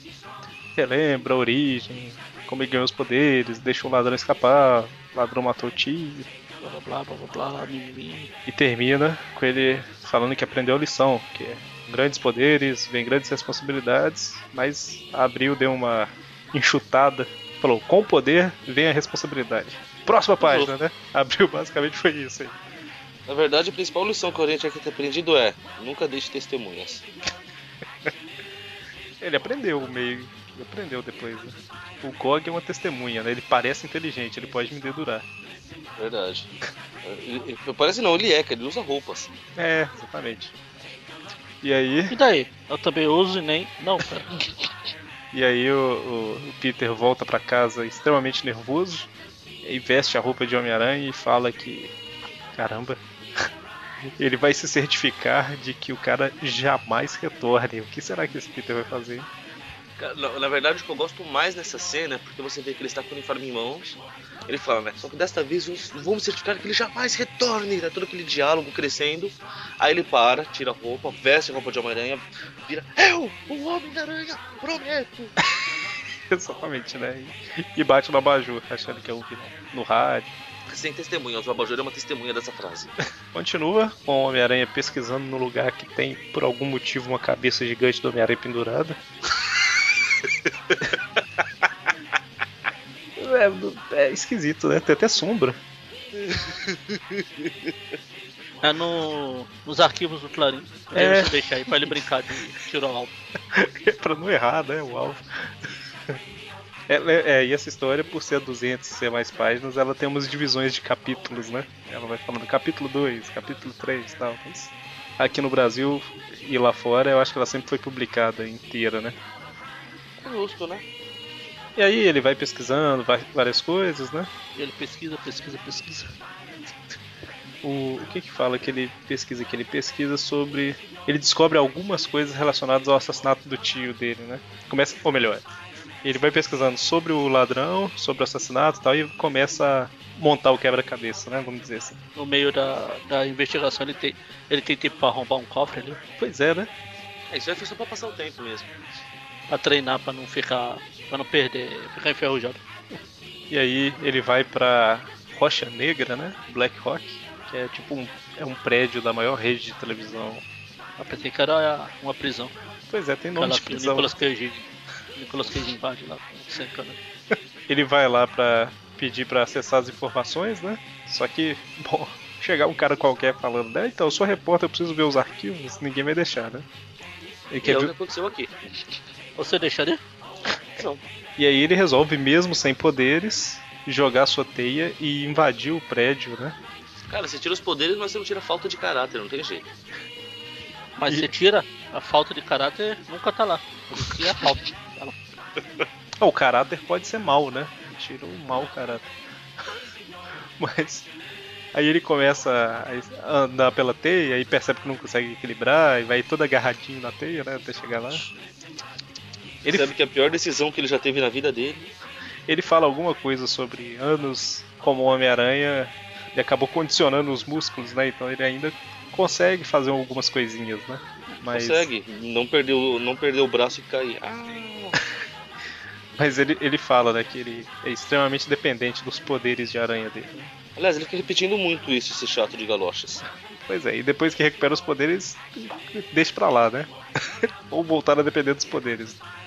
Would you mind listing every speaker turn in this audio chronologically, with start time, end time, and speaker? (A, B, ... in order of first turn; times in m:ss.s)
0:00.7-0:06.3 A
0:06.6-0:08.3 B
0:08.5-0:22.6 A
0:20.4-0:20.7 C
0:23.3-0:27.0 C
0:29.2-0:35.2 A
0:36.0-0:36.5 C
0:37.0-0:39.3 C
0:39.6-0:40.6 A
0:41.6-0:42.1 A
0:42.1-0:44.3 B
0:45.3-0:49.1 A
0:49.6-0:51.9 A
0:52.5-0:53.5 A
0:54.2-0:59.3 A
1:00.0-1:15.3 C
1:16.3-1:20.4 A
1:20.7-1:22.9 C
1:23.3-1:29.0 A
1:33.2-1:35.6 A
1:36.2-1:37.7 C
1:38.6-1:43.1 B
1:40.9-1:41.3 A
1:43.5-1:45.2 A
1:46.9-1:59.2 A
2:00.2-2:00.8 C
2:01.8-2:04.3 A
2:04.6-2:06.1 B
2:07.6-2:15.4 A
2:16.0-2:22.0 A
2:22.2-2:26.0 B
2:26.2-2:26.7 A
2:27.3-2:28.7 C
2:29.5-2:32.6 B
2:33.5-2:40.4 A
2:41.0-2:42.5 B
2:42.9-2:44.1 A
2:43.4-2:44.6 B
2:45.2-2:47.0 B
2:47.7-2:56.6 A
2:57.5-2:57.9 A
2:57.6-2:58.6 C
2:59.4-3:00.0 B
3:01.4-3:06.6 A
3:07.1-3:09.7 C
3:11.0-3:15.2 B
3:16.2-3:19.1 A
3:20.6-3:21.1 A
3:21.7-3:28.2 A
3:29.6-3:29.9 A
3:29.6-3:31.8 C
3:32.5-3:41.9 A
3:41.5-3:45.0 C
3:46.2-3:50.5 A
3:50.8-3:53.2 C
3:53.6-3:56.9 A
3:57.7-3:59.2 A